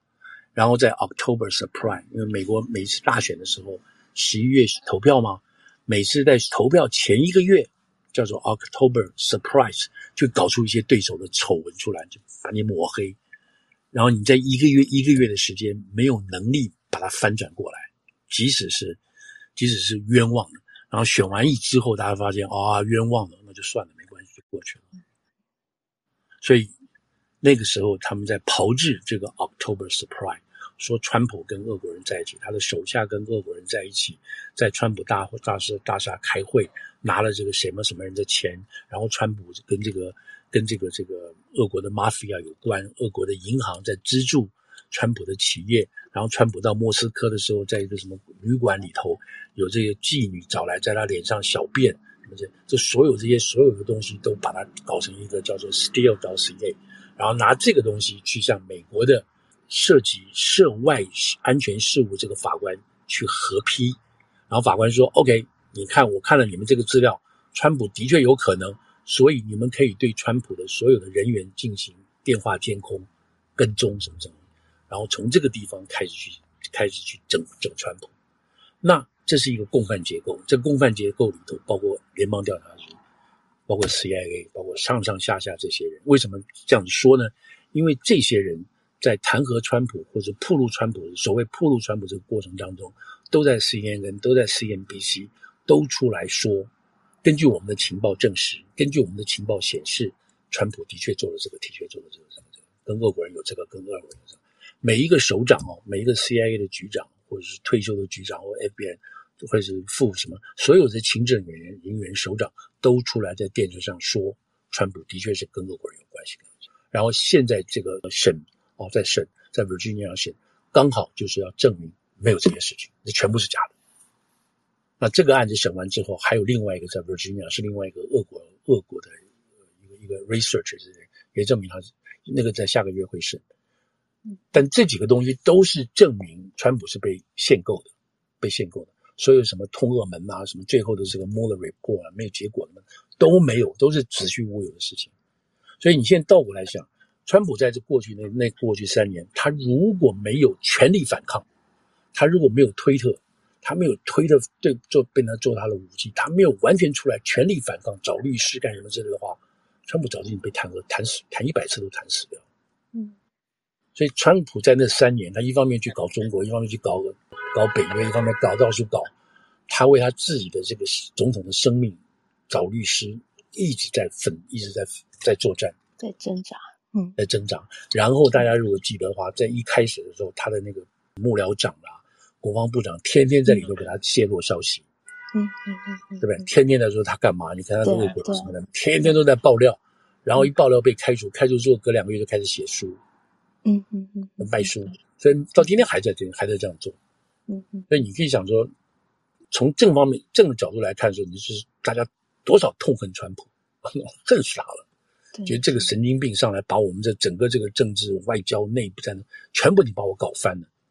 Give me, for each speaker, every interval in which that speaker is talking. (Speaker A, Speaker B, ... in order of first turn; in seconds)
Speaker A: 0.6-13.2, 13.9-19.0, 19.6-24.9, 26.4-26.7, 27.4-64.0, 64.5-74.4, 74.9-78.1, 78.8-83.0, 83.7-96.7, 97.2-123.8, 125.0-129.2, 129.8-133.4, 134.5-145.1, 145.8-151.5, 152.1-162.4, 163.9-169.1, 169.7-175.8, 177.2-184.9, 186.2-193.0, 194.4-197.0, 197.9-198.7, 199.5-204.9, 205.5-210.7
Speaker B: 176.0-177.2, 185.3-186.5, 187.8-188.5, 193.7-194.7, 197.5-197.9, 205.3-205.6